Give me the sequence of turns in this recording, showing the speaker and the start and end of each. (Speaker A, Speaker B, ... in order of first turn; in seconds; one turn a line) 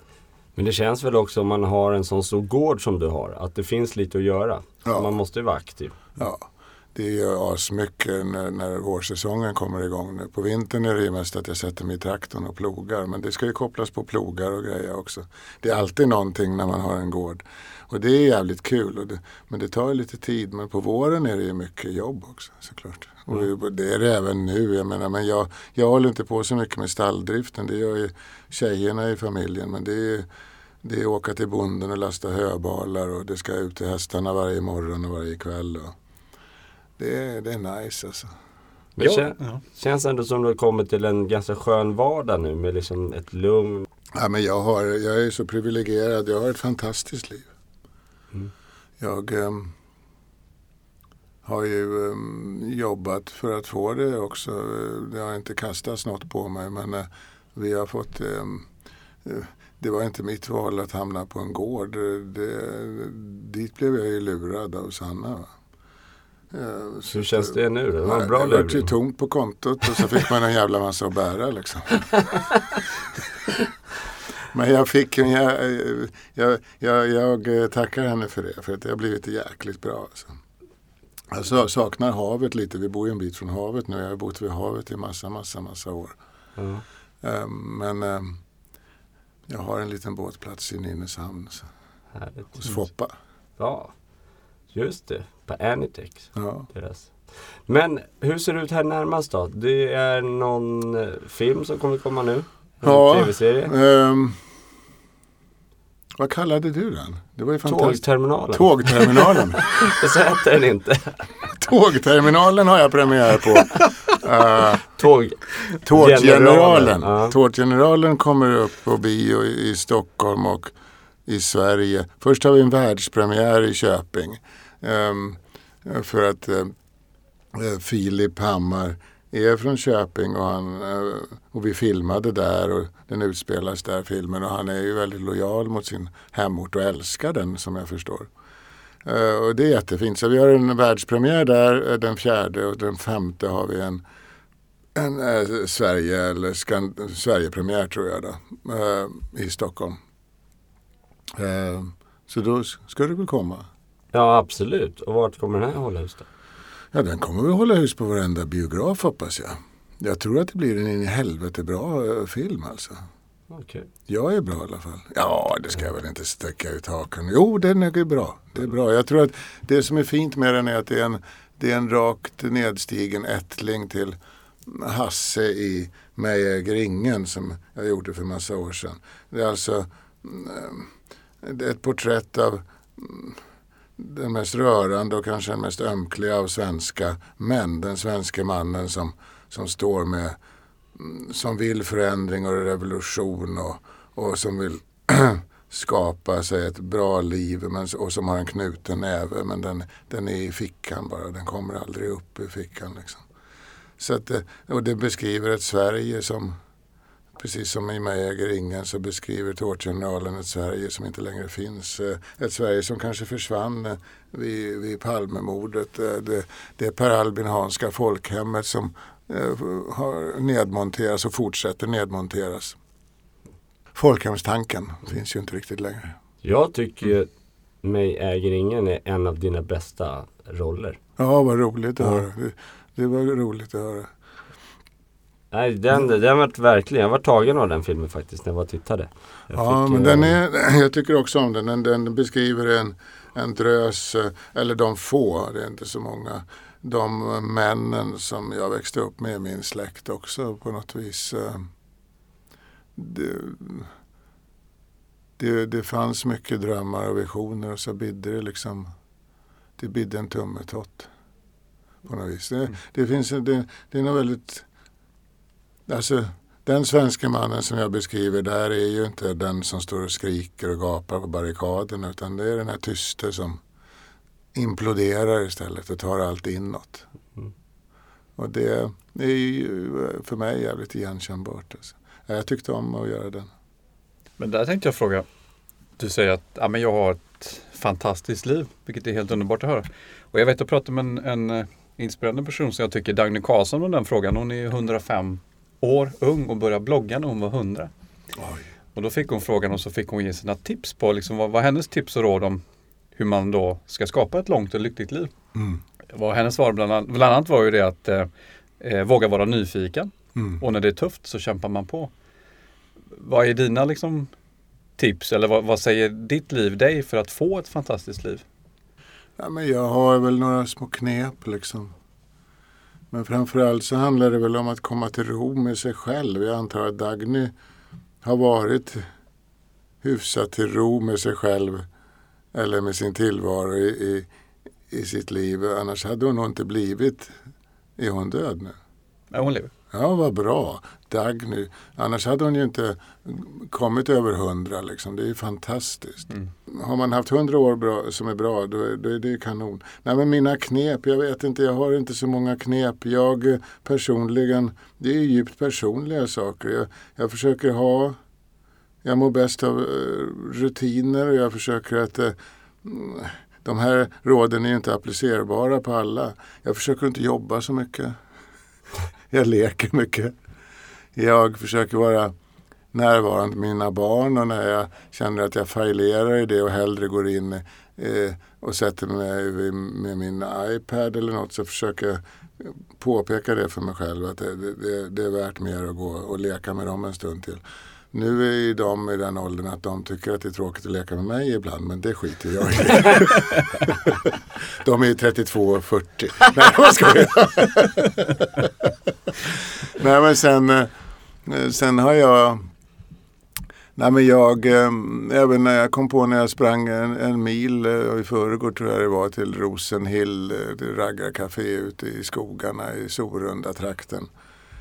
Speaker A: 0.6-6.0
Speaker B: 4.8-5.2
Speaker B: 6.2-30.3
Speaker B: 30.8-36.0
Speaker B: 37.0-38.3
Speaker A: 39.0-43.9
Speaker C: 39.0-39.6
Speaker B: 44.2-47.5
Speaker B: 49.0-49.7
Speaker B: 51.4-58.7
Speaker B: 59.2-65.5
Speaker B: 66.5-72.1
Speaker A: 67.1-68.9
Speaker B: 74.5-80.3
Speaker B: 81.3-86.2
Speaker A: 86.6-86.8
Speaker B: 87.2-88.4
Speaker B: 89.5-91.7
Speaker A: 92.1-92.8
Speaker B: 92.6-93.1
Speaker A: 93.6-93.9
Speaker A: 94.7-103.7
Speaker B: 96.3-96.7
Speaker B: 102.8-104.4
Speaker B: 106.2-109.9
Speaker A: 107.7-111.2
Speaker B: 111.5-114.9
Speaker A: 114.9-117.3
Speaker B: 115.8-120.7
Speaker B: 121.2-126.7
Speaker B: 127.5-138.3
Speaker B: 139.0-144.0
Speaker B: 144.9-150.0
Speaker B: 151.3-153.7
Speaker A: 154.1-156.3
Speaker B: 156.9-163.0
Speaker A: 163.5-163.9
Speaker B: 164.1-180.9
Speaker B: 181.4-183.4
Speaker B: 184.0-190.4
Speaker B: 190.9-203.2
Speaker B: 204.0-206.6
Speaker B: 207.4-222.8
Speaker B: 223.9-226.2
Speaker A: 226.4-227.3
Speaker A: 227.8-231.0
Speaker B: 231.2-234.1
Speaker A: 235.5-240.3
Speaker B: 239.5-251.7
Speaker B: 252.9-253.9
Speaker B: 255.4-258.9
Speaker B: 259.8-261.1
Speaker B: 262.0-264.6
Speaker B: 265.9-273.6
Speaker B: 274.5-277.1
Speaker B: 278.4-283.5
Speaker C: 284.4-285.2
Speaker C: 286.0-297.9
Speaker B: 298.4-298.7
Speaker C: 298.9-302.6
Speaker C: 303.1-305.3
Speaker B: 305.5-305.8
Speaker C: 306.1-308.3
Speaker C: 308.8-312.1
Speaker B: 310.4-310.6
Speaker C: 313.1-314.3
Speaker C: 315.0-318.4
Speaker B: 319.4-321.9
Speaker B: 323.1-327.5
Speaker B: 328.2-329.1
Speaker B: 330.0-331.8
Speaker B: 332.5-334.3
Speaker B: 334.9-337.4
Speaker B: 338.0-338.8
Speaker C: 339.3-339.7
Speaker B: 339.9-358.2
Speaker B: 359.0-368.1
Speaker B: 369.3-370.3
Speaker B: 371.1-372.3
Speaker B: 372.9-387.6
Speaker B: 388.1-398.9
Speaker B: 399.9-400.9
Speaker B: 401.4-402.6
Speaker B: 403.9-414.3